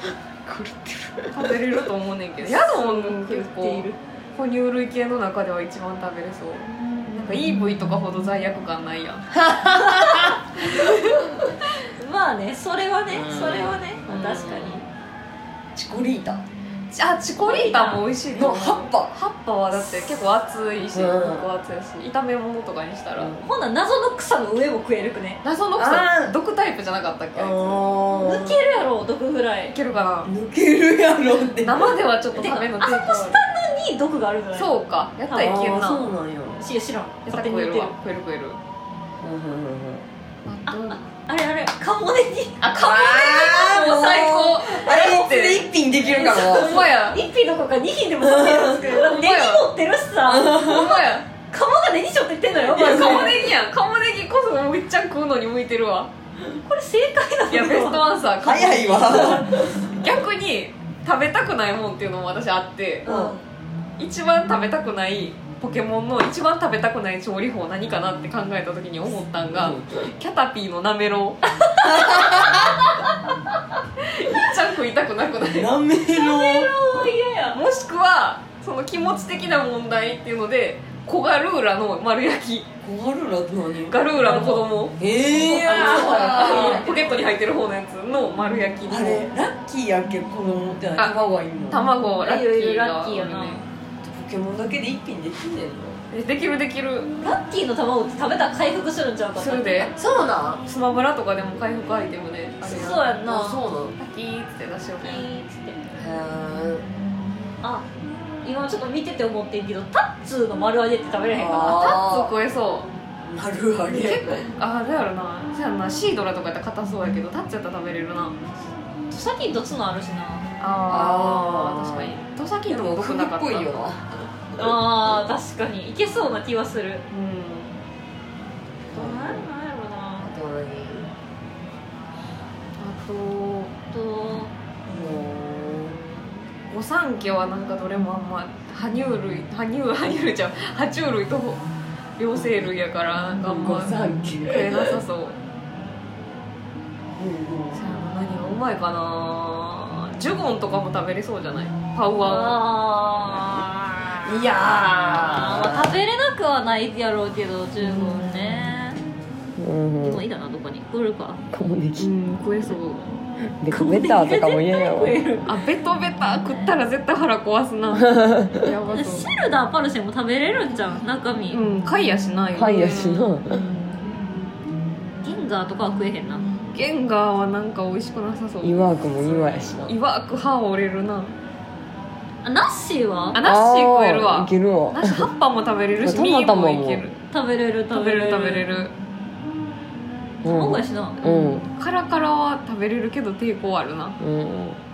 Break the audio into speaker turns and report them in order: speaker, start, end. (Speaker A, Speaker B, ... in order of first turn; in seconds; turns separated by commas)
Speaker A: 0.5-1.6, Speaker B: 1.3-9.3, Speaker C: 2.4-4.0, Speaker A: 9.3-10.3, Speaker C: 9.7-11.2, Speaker C: 11.9-14.8, Speaker A: 13.1-14.8, Speaker A: 15.8-16.4, Speaker B: 16.9-23.4, Speaker C: 17.4-18.1, Speaker A: 18.4-19.1, Speaker A: 20.9-21.5, Speaker C: 23.4-25.4, Speaker B: 25.4-27.8, Speaker A: 25.8-26.4, Speaker A: 27.3-28.6, Speaker C: 28.2-29.8, Speaker B: 29.7-30.3, Speaker A: 30.2-32.0, Speaker B: 31.6-33.4, Speaker C: 32.4-34.7, Speaker B: 34.5-36.1, Speaker C: 35.3-35.7, Speaker A: 35.4-36.6, Speaker C: 36.6-37.9, Speaker B: 37.3-38.6, Speaker A: 39.2-40.1, Speaker B: 40.5-41.0, Speaker C: 40.7-42.6, Speaker B: 42.6-45.7, Speaker A: 42.8-46.8, Speaker C: 46.0-53.4, Speaker B: 46.2-47.2, Speaker A: 48.2-48.8, Speaker B: 48.8-49.7, Speaker A: 50.3-51.0, Speaker B: 50.5-51.3, Speaker B: 52.7-56.1, Speaker A: 52.8-53.2, Speaker C: 56.6-58.2, Speaker B: 57.5-63.1, Speaker A: 58.4-59.8, Speaker C: 58.8-59.4, Speaker C: 63.0-63.4, Speaker A: 63.1-63.4, Speaker B: 64.0-71.4, Speaker A: 69.5-69.8, Speaker C: 71.6-73.1, Speaker A: 71.8-72.7, Speaker B: 74.2-75.7, Speaker A: 75.4-76.7, Speaker C: 76.1-77.6, Speaker B: 77.5-82.7, Speaker A: 82.8-84.0, Speaker B: 83.9-85.0, Speaker C: 84.1-87.2, Speaker A: 85.0-86.9, Speaker B: 85.6-89.3, Speaker A: 88.9-91.9, Speaker B: 91.7-93.7, Speaker C: 92.0-93.6, Speaker A: 94.0-96.0, Speaker B: 96.1-97.1, Speaker C: 97.2-99.9, Speaker B: 99.4-99.9, Speaker A: 99.9-100.6, Speaker B: 100.6-103.1, Speaker C: 102.6-103.6, Speaker A: 103.2-104.0, Speaker B: 104.0-105.2, Speaker C: 105.0-105.9, Speaker A: 106.0-106.9, Speaker C: 108.4-111.9, Speaker A: 111.3-112.3, Speaker B: 111.6-112.9, Speaker A: 113.3-114.5, Speaker B: 113.9-118.4, Speaker C: 119.1-120.5, Speaker B: 120.6-123.8, Speaker A: 120.9-122.2, Speaker A: 122.7-124.1, Speaker C: 124.6-127.0, Speaker B: 127.1-127.7, Speaker C: 128.9-130.3, Speaker A: 128.9-129.5, Speaker A: 130.2-131.1, Speaker B: 132.8-133.7, Speaker C: 133.9-134.5, Speaker A: 134.9-136.0, Speaker B: 136.7-141.6, Speaker B: 142.2-145.4, Speaker A: 143.4-145.0, Speaker A: 147.2-147.9, Speaker B: 147.7-152.6, Speaker C: 152.2-154.5, Speaker A: 154.2-156.0, Speaker C: 155.1-159.0, Speaker B: 157.8-158.6, Speaker A: 159.6-160.2, Speaker C: 160.0-161.4, Speaker A: 161.5-162.1, Speaker B: 162.0-163.0, Speaker A: 163.6-165.2, Speaker C: 163.7-165.5, Speaker B: 165.5-169.3, Speaker A: 167.9-168.7, Speaker C: 168.9-171.6, Speaker B: 171.5-174.0, Speaker A: 172.5-173.6, Speaker C: 175.2-176.4, Speaker B: 176.7-181.4, Speaker A: 178.6-179.9, Speaker C: 182.4-183.4, Speaker B: 183.3-187.2, Speaker A: 183.4-185.3, Speaker A: 186.0-187.1, Speaker C: 187.3-188.7, Speaker B: 187.9-188.9, Speaker C: 190.4-191.2, Speaker A: 190.4-191.7, Speaker B: 191.2-194.2, Speaker A: 194.2-194.8